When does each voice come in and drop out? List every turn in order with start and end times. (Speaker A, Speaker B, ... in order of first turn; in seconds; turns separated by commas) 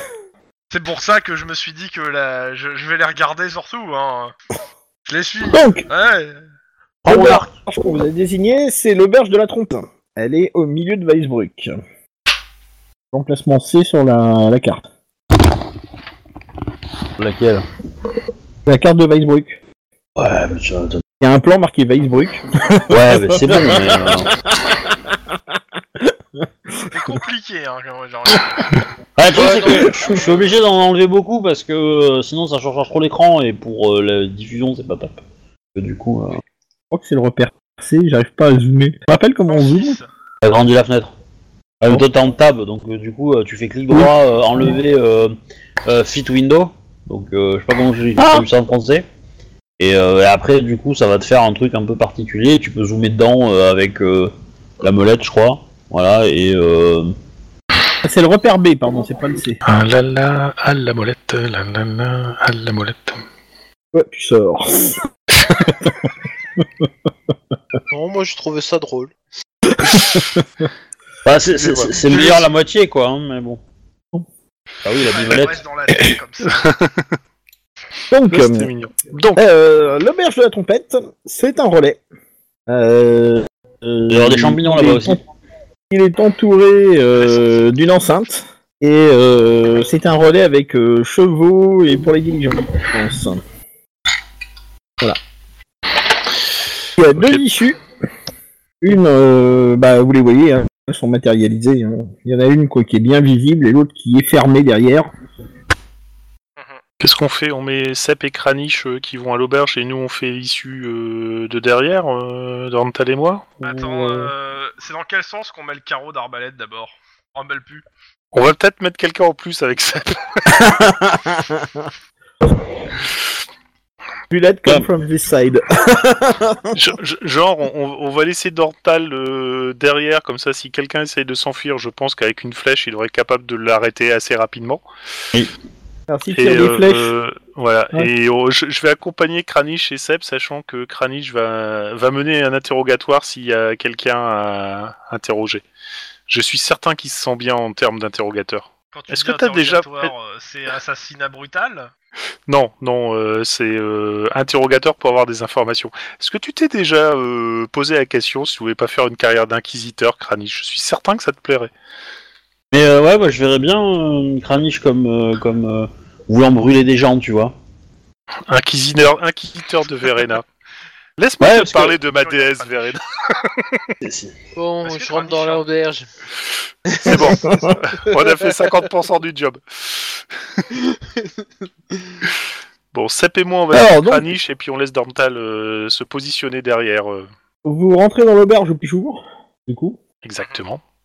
Speaker A: 0.7-4.3, Speaker A: 5.1-6.4, Speaker B: 5.5-5.8, Speaker C: 7.0-7.5, Speaker B: 7.0-11.7, Speaker B: 13.1-14.8, Speaker C: 17.2-17.6, Speaker B: 18.6-19.6, Speaker C: 20.2-21.0, Speaker B: 21.2-25.1, Speaker C: 22.9-24.3, Speaker B: 26.8-27.2, Speaker A: 26.9-28.8, Speaker C: 29.2-35.2, Speaker D: 29.3-30.3, Speaker C: 35.7-36.4, Speaker B: 36.9-40.0, Speaker A: 39.5-40.0, Speaker C: 40.4-41.1, Speaker C: 41.8-49.0, Speaker B: 48.2-48.5, Speaker C: 49.8-57.1, Speaker B: 58.0-59.6, Speaker E: 59.6-63.2, Speaker B: 63.9-65.0, Speaker D: 67.9-69.1, Speaker C: 71.2-73.6, Speaker E: 71.5-72.5, Speaker C: 74.8-75.6, Speaker A: 75.0-76.6, Speaker E: 76.5-77.1, Speaker B: 78.1-78.7, Speaker E: 78.3-79.4, Speaker B: 79.3-82.0, Speaker B: 82.7-85.2, Speaker C: 84.1-85.2, Speaker B: 85.9-93.4, Speaker A: 87.2-87.7, Speaker B: 97.0-97.8, Speaker E: 97.1-97.4, Speaker B: 98.8-105.1, Speaker E: 107.0-114.3, Speaker A: 113.6-117.8, Speaker E: 118.3-120.6, Speaker B: 120.7-121.8, Speaker B: 124.3-126.7, Speaker E: 126.7-134.8, Speaker B: 136.1-137.1, Speaker E: 136.3-145.6, Speaker E: 146.3-150.1, Speaker A: 148.9-151.9, Speaker E: 152.5-161.7, Speaker C: 162.7-167.5, Speaker E: 168.5-170.4, Speaker E: 171.2-173.9, Speaker C: 171.4-171.9, Speaker A: 172.1-173.0, Speaker C: 174.0-174.3, Speaker D: 174.5-176.1, Speaker A: 174.8-175.6, Speaker D: 176.9-177.6, Speaker E: 177.0-180.7, Speaker B: 177.4-177.7, Speaker D: 180.8-181.3, Speaker E: 182.9-187.3, Speaker B: 183.7-184.3, Speaker B: 187.6-190.0, Speaker E: 190.2-190.8